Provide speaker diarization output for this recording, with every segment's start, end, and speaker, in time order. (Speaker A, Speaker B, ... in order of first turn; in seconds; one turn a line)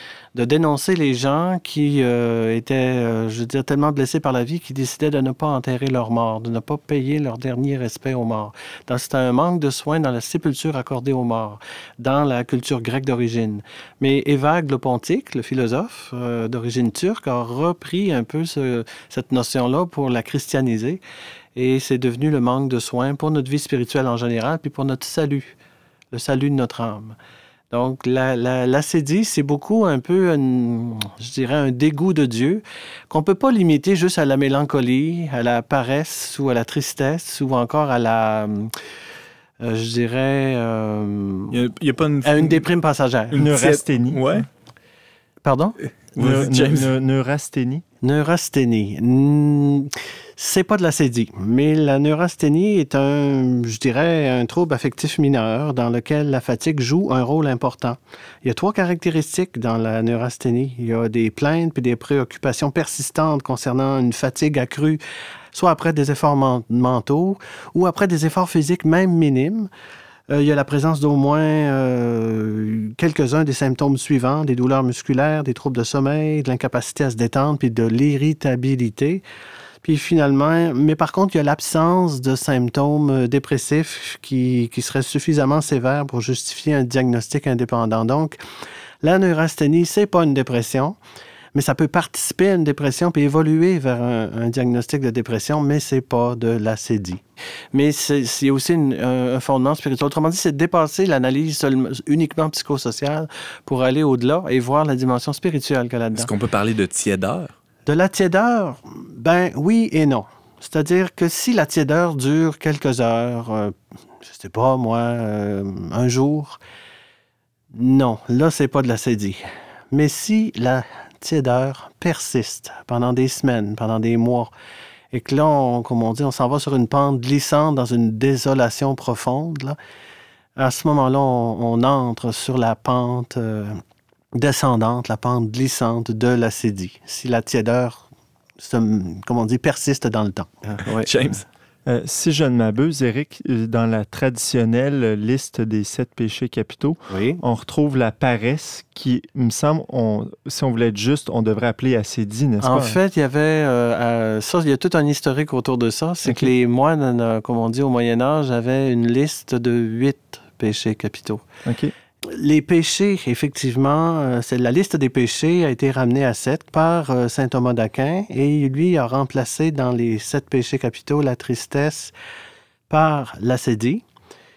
Speaker A: 0.3-21.0
Speaker A: 21.6-25.6
Speaker A: 26.1-27.2
Speaker A: 27.7-38.7
Speaker A: 39.6-41.6
Speaker B: 41.5-42.6
Speaker A: 42.2-43.4
Speaker B: 43.3-44.5
Speaker C: 43.4-44.2
Speaker A: 45.4-45.8
Speaker B: 46.1-46.9
Speaker C: 46.2-47.8
Speaker A: 48.0-65.0
Speaker A: 65.5-69.7
Speaker A: 70.3-79.2
Speaker A: 79.8-88.4
Speaker A: 89.0-91.0
Speaker A: 91.5-97.2
Speaker A: 97.7-106.3
Speaker B: 106.2-107.5
Speaker A: 107.9-116.6
Speaker A: 117.7-124.5
Speaker A: 125.1-129.8
Speaker A: 130.6-133.8
Speaker A: 134.4-138.1
Speaker A: 138.6-141.4
Speaker B: 141.0-141.4
Speaker C: 141.9-153.0
Speaker A: 147.1-147.4
Speaker A: 152.6-161.4
Speaker C: 156.2-156.5
Speaker C: 161.7-161.9
Speaker A: 162.3-172.1
Speaker A: 172.9-174.0